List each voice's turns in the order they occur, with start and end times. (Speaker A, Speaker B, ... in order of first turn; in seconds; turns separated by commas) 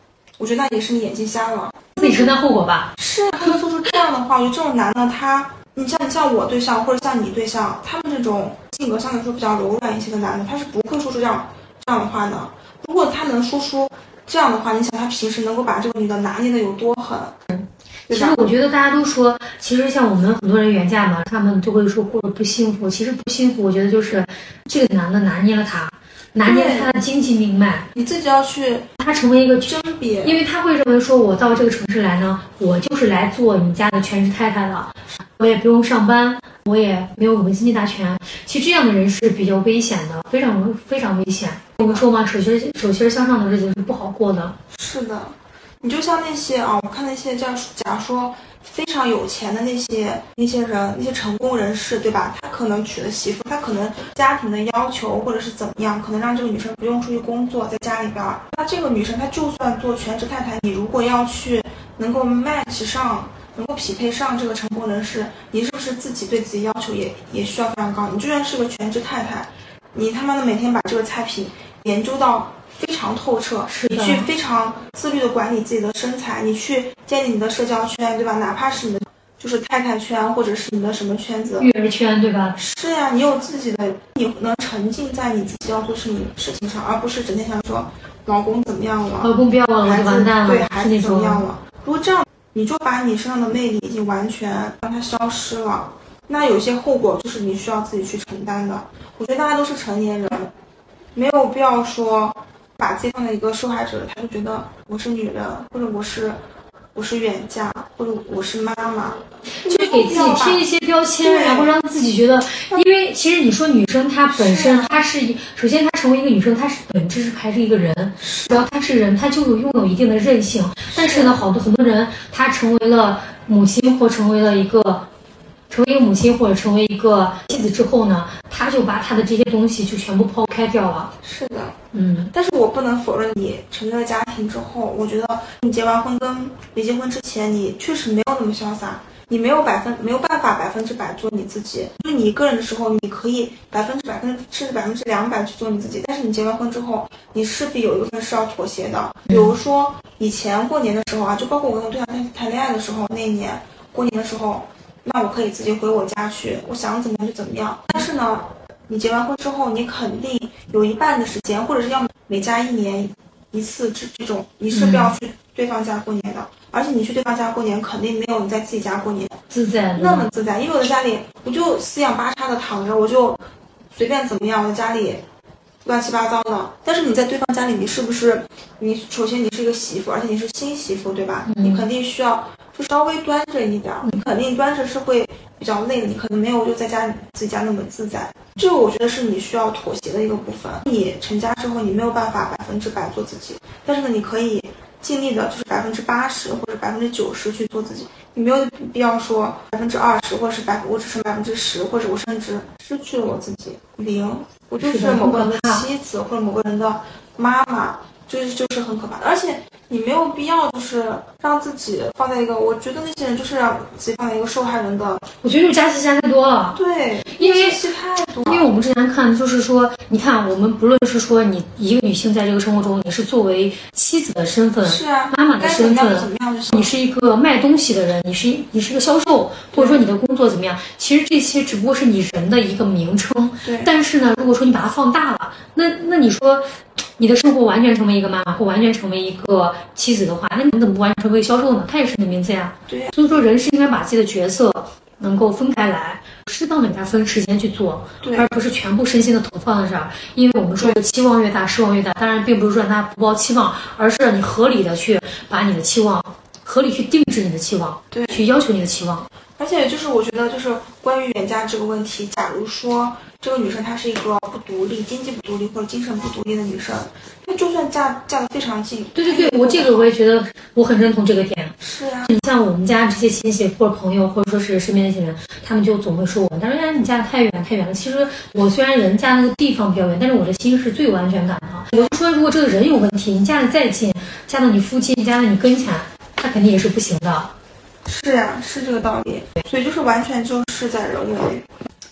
Speaker A: 0.4-2.3, Speaker B: 2.0-3.0, Speaker A: 3.0-17.4, Speaker B: 17.5-27.9, Speaker A: 18.1-18.5, Speaker A: 26.4-26.9, Speaker A: 27.9-28.9, Speaker B: 29.0-44.6, Speaker A: 29.6-30.4, Speaker A: 41.8-42.1, Speaker A: 44.7-81.7, Speaker B: 73.7-74.3, Speaker B: 81.6-82.6, Speaker A: 82.6-100.5, Speaker B: 89.2-91.5, Speaker A: 101.2-106.4, Speaker A: 107.0-110.7, Speaker B: 109.6-125.1, Speaker A: 111.2-111.7, Speaker A: 114.3-115.0, Speaker A: 118.2-118.7, Speaker A: 120.9-121.4, Speaker B: 125.7-131.1, Speaker A: 131.2-131.8, Speaker B: 131.9-132.3, Speaker A: 132.3-169.4, Speaker B: 149.3-149.6, Speaker B: 164.7-165.2, Speaker B: 169.5-170.3, Speaker A: 170.0-173.4, Speaker A: 173.9-175.3, Speaker A: 175.8-215.3, Speaker B: 181.5-181.9, Speaker B: 204.8-205.9, Speaker B: 215.4-259.3, Speaker A: 216.8-218.7, Speaker A: 224.8-226.9, Speaker A: 229.7-230.0, Speaker A: 233.6-233.9, Speaker A: 242.9-243.2, Speaker A: 248.2-248.5, Speaker A: 258.1-258.4, Speaker A: 259.6-270.1, Speaker B: 269.1-287.5, Speaker A: 271.8-272.3, Speaker A: 288.1-291.7